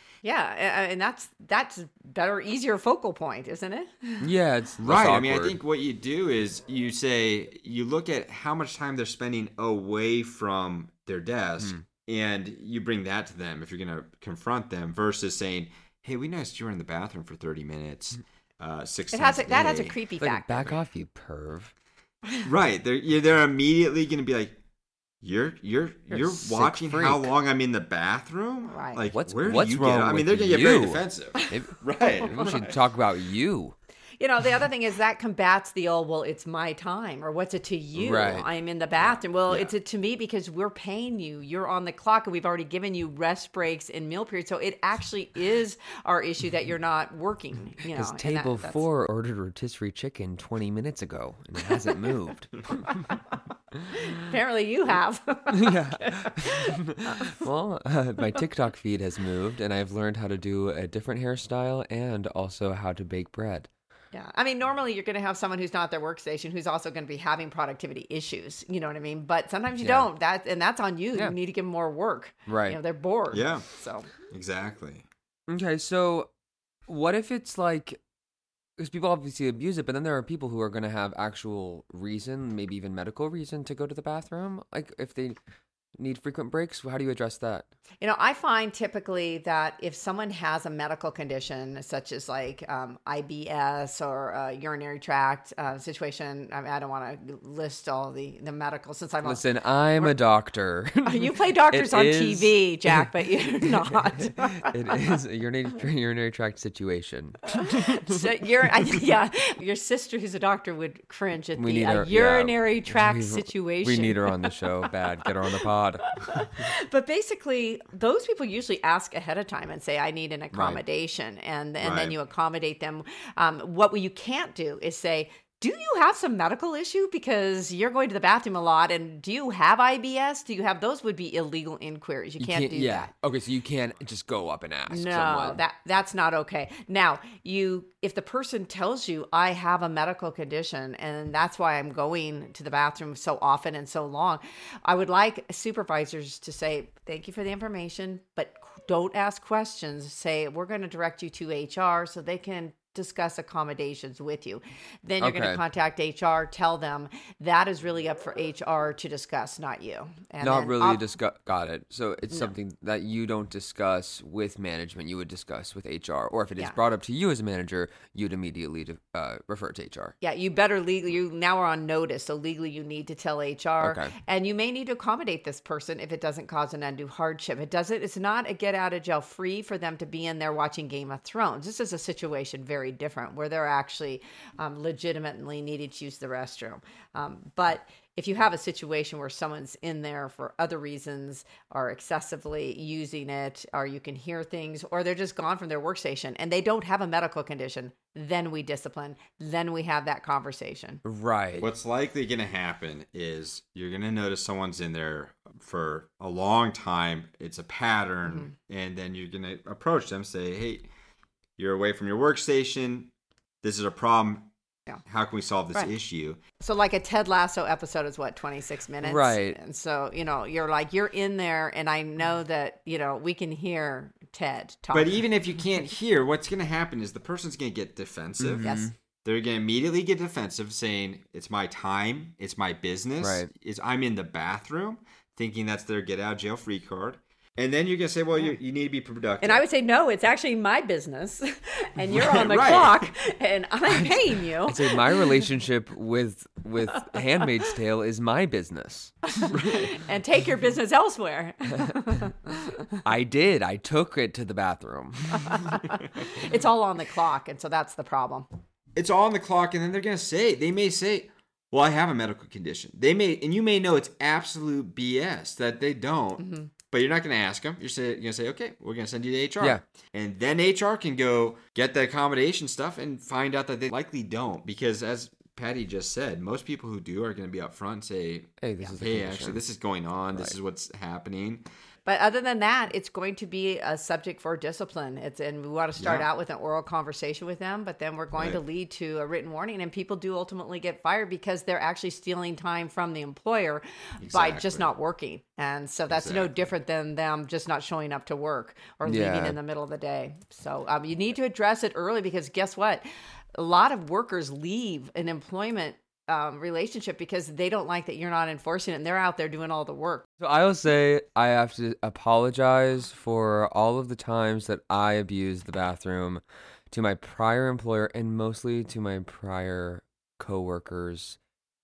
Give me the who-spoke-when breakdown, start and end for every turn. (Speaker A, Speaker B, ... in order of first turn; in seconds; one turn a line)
Speaker A: 0.2-4.3
Speaker B: 4.2-5.6
Speaker C: 4.8-19.9
Speaker A: 19.1-20.8
Speaker B: 20.2-21.7
Speaker C: 22.4-24.6
Speaker C: 25.2-32.8
Speaker B: 26.1-27.3
Speaker A: 28.7-29.1
Speaker B: 29.1-33.7
Speaker A: 32.2-32.5
Speaker A: 34.2-48.9
Speaker B: 38.0-38.5
Speaker C: 39.5-39.7
Speaker B: 47.9-53.1
Speaker A: 52.9-53.4
Speaker A: 53.9-57.4
Speaker B: 55.5-63.7
Speaker A: 64.1-74.1
Speaker B: 69.8-70.1
Speaker B: 72.5-72.8
Speaker C: 73.3-73.7
Speaker C: 74.3-75.0
Speaker B: 75.5-76.3
Speaker B: 76.9-78.0
Speaker B: 78.8-85.4
Speaker B: 86.0-87.7
Speaker A: 88.0-100.2
Speaker B: 99.2-103.1
Speaker A: 101.0-104.6
Speaker B: 103.6-108.2
Speaker A: 107.5-114.5
Speaker B: 111.5-116.0
Speaker A: 116.1-133.1
Speaker B: 120.5-120.8
Speaker C: 121.8-122.2
Speaker B: 132.4-135.6
Speaker A: 134.9-161.0
Speaker B: 155.2-155.6
Speaker B: 160.4-170.1
Speaker A: 170.2-201.0
Speaker B: 173.8-174.1
Speaker B: 201.0-201.7
Speaker C: 201.6-210.9
Speaker A: 208.2-208.5
Speaker C: 211.6-214.5
Speaker C: 215.1-216.4
Speaker A: 216.6-225.3
Speaker B: 219.0-219.6
Speaker C: 224.9-228.7
Speaker B: 228.4-228.9
Speaker A: 228.6-228.9
Speaker C: 229.2-239.6
Speaker B: 233.2-233.5
Speaker A: 239.4-245.5
Speaker C: 242.1-243.1
Speaker B: 243.9-249.2
Speaker A: 249.4-252.9
Speaker C: 249.5-249.9
Speaker B: 253.0-255.8
Speaker A: 255.4-258.4
Speaker C: 258.9-281.6
Speaker A: 266.4-266.7
Speaker B: 278.6-279.6
Speaker B: 280.3-280.6
Speaker A: 282.0-303.0
Speaker C: 286.0-286.3
Speaker C: 294.2-294.9
Speaker C: 296.1-296.7
Speaker B: 299.0-299.6
Speaker A: 303.6-310.2
Speaker B: 310.4-321.4